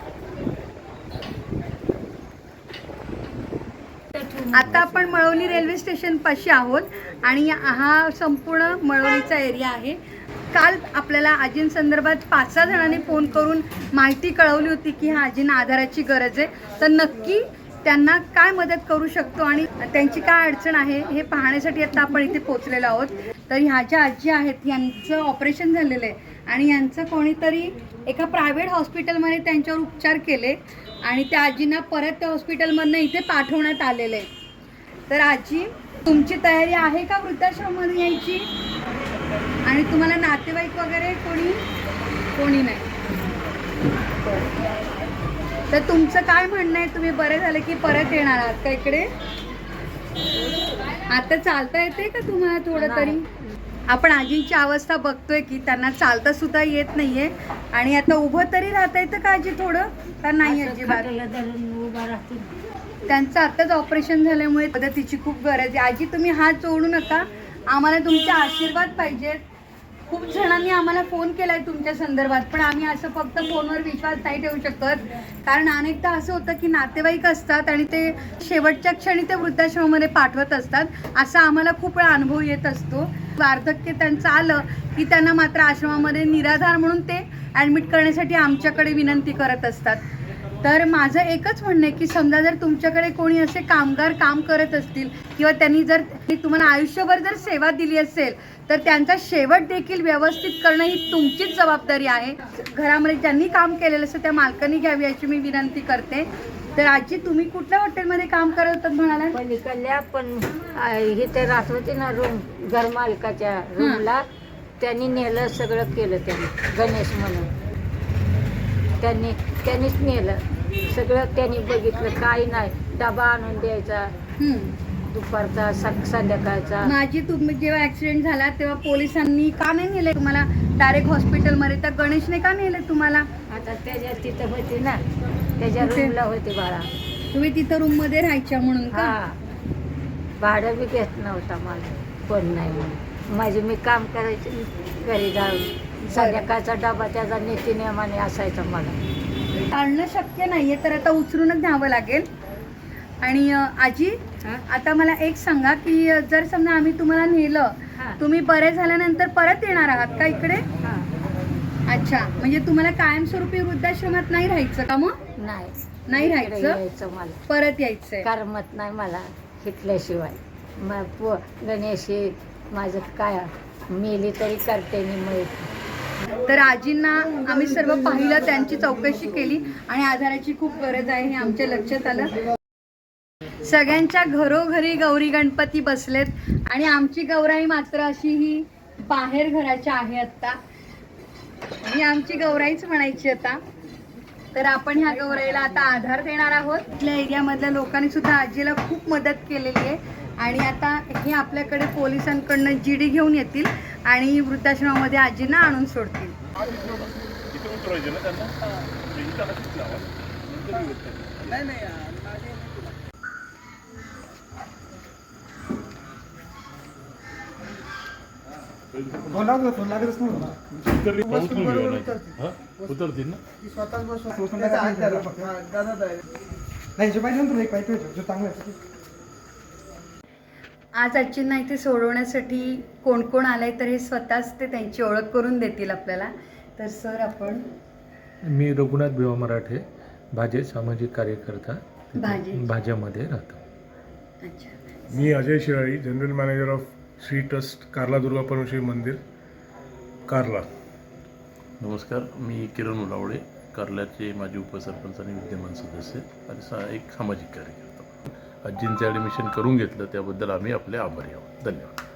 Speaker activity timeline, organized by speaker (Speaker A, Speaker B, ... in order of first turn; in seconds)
Speaker A: 4.1-5.4, 52.8-53.2, 60.4-62.5, 109.3-114.2, 114.8-117.5, 119.0-124.1, 125.1-126.9, 133.5-135.0, 135.6-136.9, 138.9-139.4, 140.4-149.0, 157.9-158.2, 160.8-161.1, 165.4-167.4, 168.2-175.7
Speaker B: 4.5-10.0, 10.5-34.2, 35.1-38.5, 39.6-41.6, 42.3-42.9, 44.2-44.5, 45.7-49.1, 51.1-53.2, 53.9-61.1, 63.1-69.4, 70.1-90.0, 90.6-109.3, 113.8-114.0, 124.4-124.7, 126.8-133.3, 135.8-136.1, 137.3-139.1, 146.1-146.5, 149.7-152.3, 153.2-160.7, 161.9-165.2, 166.1-166.8, 167.5-168.3, 176.4-182.3, 183.6-190.6, 191.8-193.6, 194.5-206.3, 231.0-237.6, 242.2-242.6, 244.4-245.2
Speaker C: 206.6-207.0, 207.5-211.7, 218.9-219.7, 220.7-223.4, 251.8-261.9
Speaker D: 219.3-220.6, 221.3-222.2, 223.6-225.7, 227.0-228.8
Speaker E: 238.5-243.6
Speaker F: 245.1-249.2, 250.3-250.7